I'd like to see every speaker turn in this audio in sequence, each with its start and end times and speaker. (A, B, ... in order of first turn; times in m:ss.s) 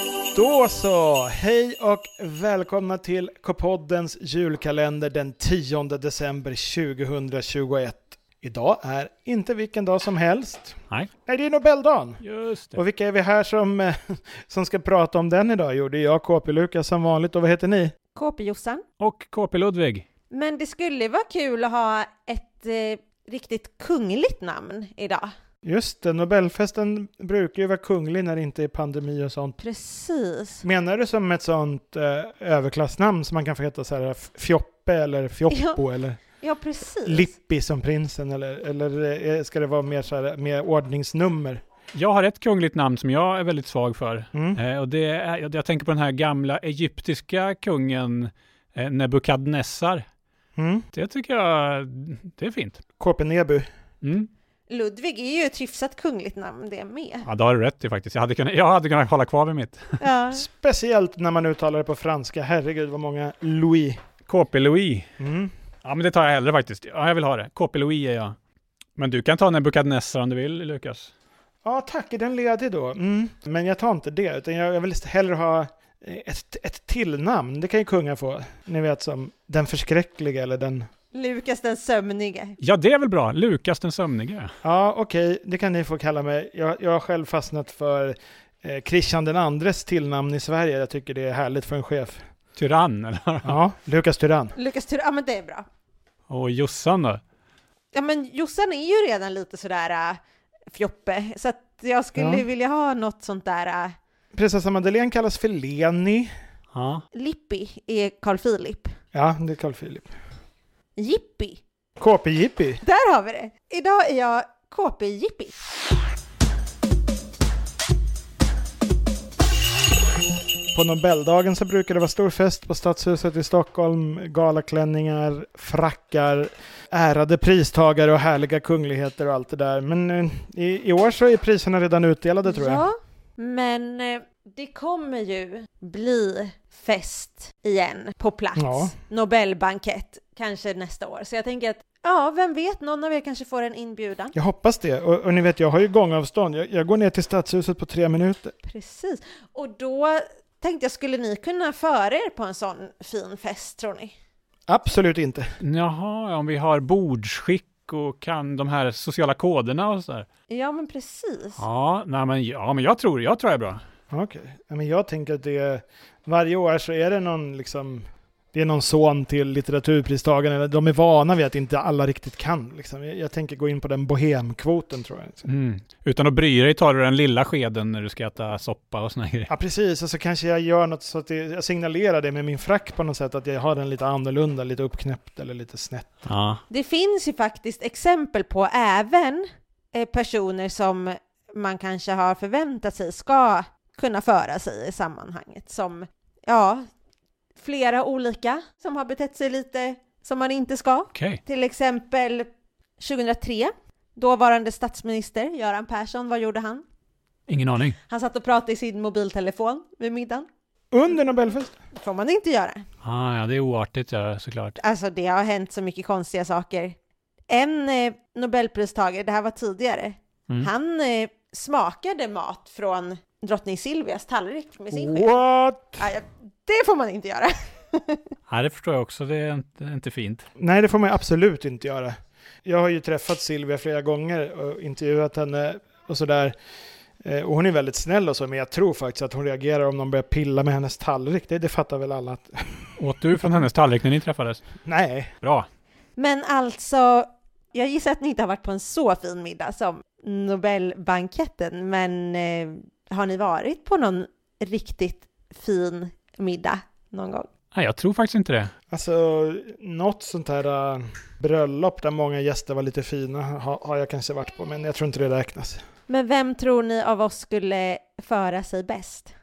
0:00.3-0:12.2 A
0:12.2-0:12.8 B
0:12.7-0:17.9 A
0:18.1-0:18.8 C
0:19.0-0:20.0 B
0:20.3-0:25.3 C
0:25.6-0:29.6 A
0:29.6-0:30.6 C
0:30.6-0:36.2 A
0:35.5-0:35.8 C
0:36.4-0:37.3 C
0:37.0-0:41.6 A
0:41.9-0:50.0 B
0:44.3-0:44.6 A
0:50.6-0:50.9 A
0:50.9-0:52.8 B
0:53.0-0:53.7 A
0:54.0-0:54.3 B
0:54.7-0:57.3 C
0:57.2-1:00.0 B
1:00.0-1:00.5 C
1:00.3-1:04.0 A
1:04.3-1:05.1 B
1:05.2-1:05.5 A
1:05.8-1:08.3 B
1:09.0-1:11.1 B
1:11.6-1:20.9 A
1:21.1-1:22.6 C
1:22.6-1:24.5 B
1:24.6-1:32.3 A
1:32.6-1:33.6 B
1:33.4-1:34.6 A
1:34.6-1:35.6 C
1:36.3-1:37.2 B
1:37.9-1:40.2 C
1:40.7-1:44.0 C
1:42.2-1:42.4 A
1:44.3-1:46.3 A
1:46.7-1:47.0 B
1:47.1-1:48.9 C
1:49.1-1:50.1 A
1:51.0-1:51.6 C
1:52.0-1:52.8 A
1:52.8-1:55.5 C
2:00.7-2:12.9 A
2:12.4-2:24.3 C
2:18.6-2:18.9 A
2:24.3-2:28.5 A
2:28.6-2:34.1 C
2:34.7-2:35.5 A
2:35.6-2:40.3 B
2:40.5-2:41.6 C
2:41.6-2:43.8 B
2:44.1-2:55.5 A
2:55.5-2:59.5 B
2:59.5-3:06.1 A
3:06.3-3:06.6 B
3:06.7-3:16.8 C
3:17.6-3:26.8 C
3:21.1-3:21.4 B
3:27.5-3:28.0 B
3:28.1-3:30.5 C
3:30.9-3:31.8 A
3:31.9-3:32.8 C
3:33.0-3:34.8 B
3:34.8-3:37.0 C
3:37.5-3:45.4 C
3:44.9-3:46.0 A
3:46.0-3:48.3 C
3:48.5-3:50.5 B
3:50.6-3:56.6 A
3:57.2-4:03.0 A
4:03.0-4:04.6 B
4:04.8-4:05.3 A
4:05.4-4:05.7 B
4:06.2-4:17.5 C
4:17.7-4:18.7 B
4:18.9-4:25.8 A
4:26.1-4:29.3 C